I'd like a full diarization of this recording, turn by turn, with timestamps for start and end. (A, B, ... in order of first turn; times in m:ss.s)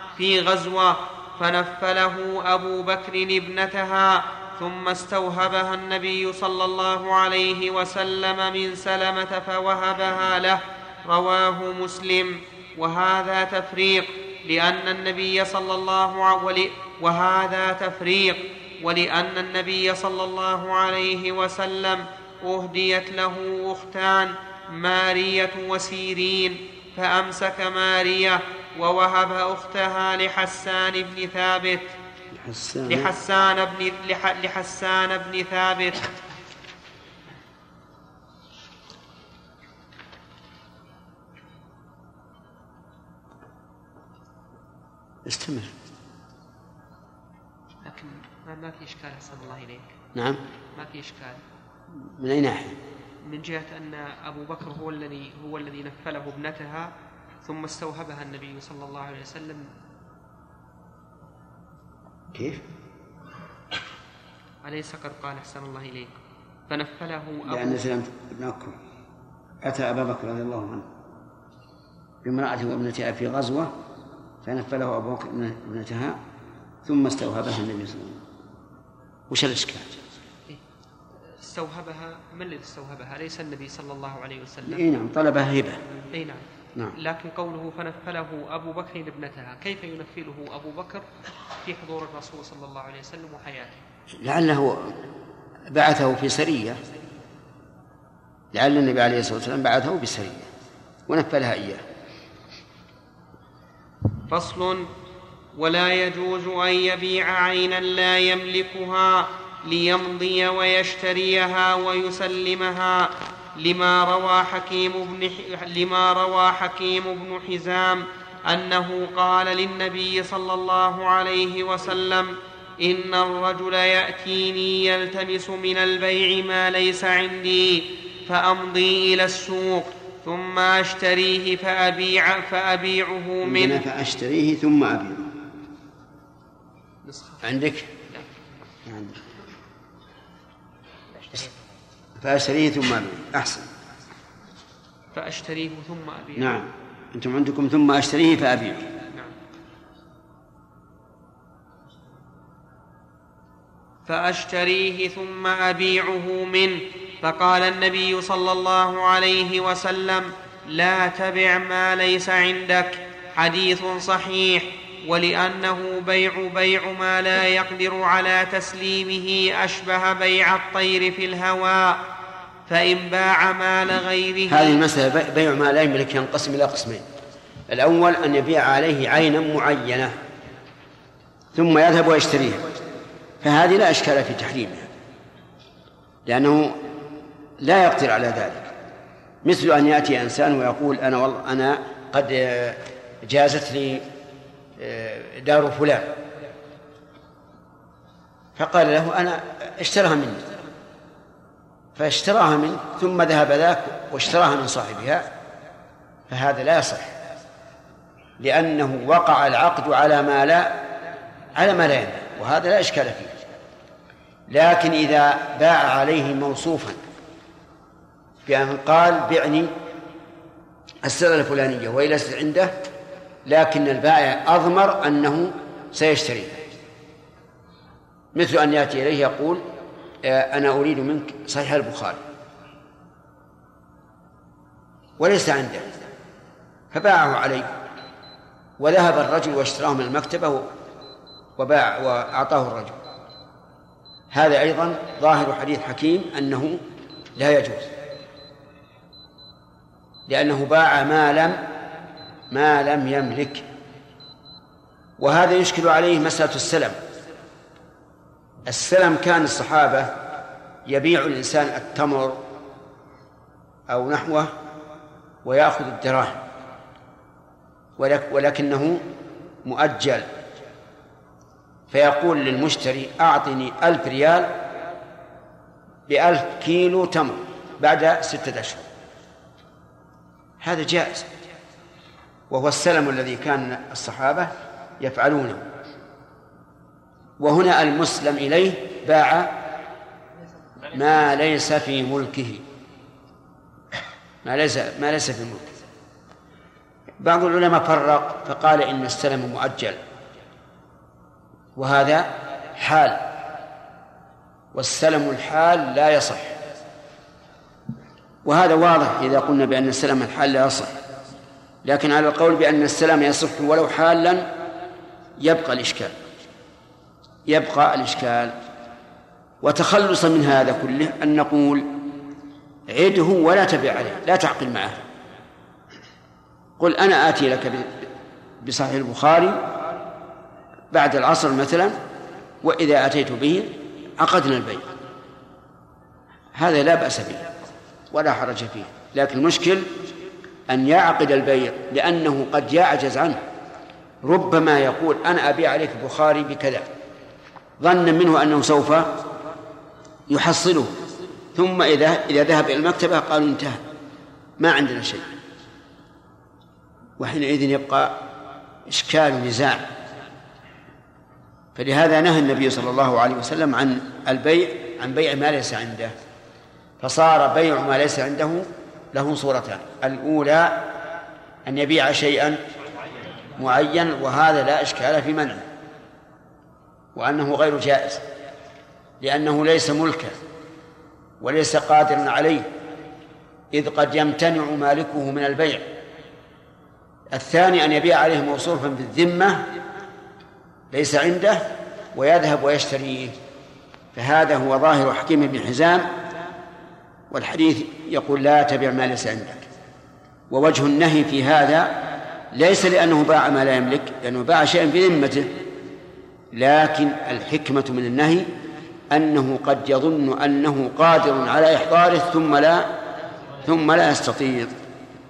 0:00.2-0:31.9 A
0:32.3-0:33.1 B
0:32.9-0:36.1 A
0:45.2-0:45.7 B
0:47.8-0:49.9 A
0:50.1-0:50.4 B
0:50.7-0:51.4 A
0:51.9-0:52.8 B
0:53.2-0:56.9 A
0:57.4-0:59.7 A
1:02.3-1:02.6 B
1:04.6-1:06.1 A
1:06.7-1:07.9 A
1:07.5-1:08.8 B
1:09.6-1:10.9 B
1:12.2-1:13.7 B
1:14.4-1:16.2 B
1:16.9-1:18.2 B
1:19.3-1:19.9 B
1:21.3-1:24.8 A
1:24.6-1:25.8 B
1:26.1-1:33.8 A
1:34.2-1:35.0 B
1:35.7-1:36.8 B
1:38.5-1:40.5 B
1:41.1-1:41.8 B
1:44.3-1:44.9 A
1:45.6-2:13.8 A
2:13.4-2:15.3 B
2:17.0-2:17.5 A
2:17.4-2:17.9 B
2:18.9-2:19.2 B
2:21.2-2:21.6 A
2:22.2-2:23.7 B
2:25.1-2:26.6 A
2:26.4-2:28.9 B
2:34.1-2:52.0 A
2:52.7-2:54.8 A
2:54.5-2:57.0 B
2:57.7-3:00.1 B
3:01.5-3:02.6 B
3:03.4-3:04.9 B
3:06.3-3:06.8 B
3:07.6-3:08.7 B
3:09.4-3:14.1 B
3:14.8-3:16.2 B
3:18.6-3:20.4 B
3:22.0-3:25.3 B
3:26.3-3:27.1 B
3:28.4-3:30.8 B
3:31.6-3:33.4 B
3:34.5-3:37.0 B
3:38.5-3:39.7 B
3:41.0-3:42.7 B
3:43.4-3:46.6 B
3:48.3-3:49.6 B
3:50.2-3:52.2 B
3:55.2-3:55.9 B
3:56.9-3:57.7 B
3:58.8-4:00.7 B
4:01.6-4:03.0 B
4:04.3-4:06.8 B
4:07.4-4:07.9 B
4:10.3-4:11.6 B
4:12.5-4:13.6 B
4:15.2-4:17.0 B
4:18.7-4:20.2 B
4:20.9-4:22.4 B
4:23.9-4:24.5 B
4:25.4-4:26.4 B
4:28.0-4:29.0 B
4:29.6-4:30.3 B
4:31.9-4:34.6 B
4:36.1-4:38.9 B
4:40.6-4:41.3 B
4:42.5-4:45.6 B
4:47.4-4:49.5 B
4:50.9-4:52.6 B
4:54.4-4:55.8 B
4:57.2-5:00.0 B
5:01.8-5:03.3 B
5:04.7-5:06.6 B
5:08.4-5:10.9 B
5:11.8-5:14.5 B
5:15.4-5:16.1 B
5:17.5-5:18.6 B
5:19.6-5:21.9 B
5:22.9-5:25.0 B
5:26.8-5:28.1 B
5:28.6-5:29.6 B
5:30.9-5:32.0 B
5:32.6-5:34.9 B
5:36.6-5:37.4 B
5:38.1-5:39.9 B
5:40.7-5:43.4 B
5:44.2-5:46.9 B
5:47.8-5:49.2 B
5:50.3-5:50.9 B
5:51.6-5:53.8 B
5:54.6-5:55.3 B
5:57.2-5:58.1 B
5:58.9-5:59.9 B
6:01.8-6:06.1 B
6:07.0-6:10.9 B
6:11.6-6:12.6 B
6:13.6-6:15.7 B
6:17.1-6:18.2 B
6:19.2-6:20.4 B
6:21.4-6:22.7 B
6:23.7-6:25.9 B
6:27.3-6:29.6 B
6:30.9-6:33.4 B
6:34.1-6:36.1 B
6:37.3-6:39.6 B
6:40.5-6:45.6 B
6:46.5-6:48.5 B
6:49.1-6:52.9 B
6:53.6-6:54.7 B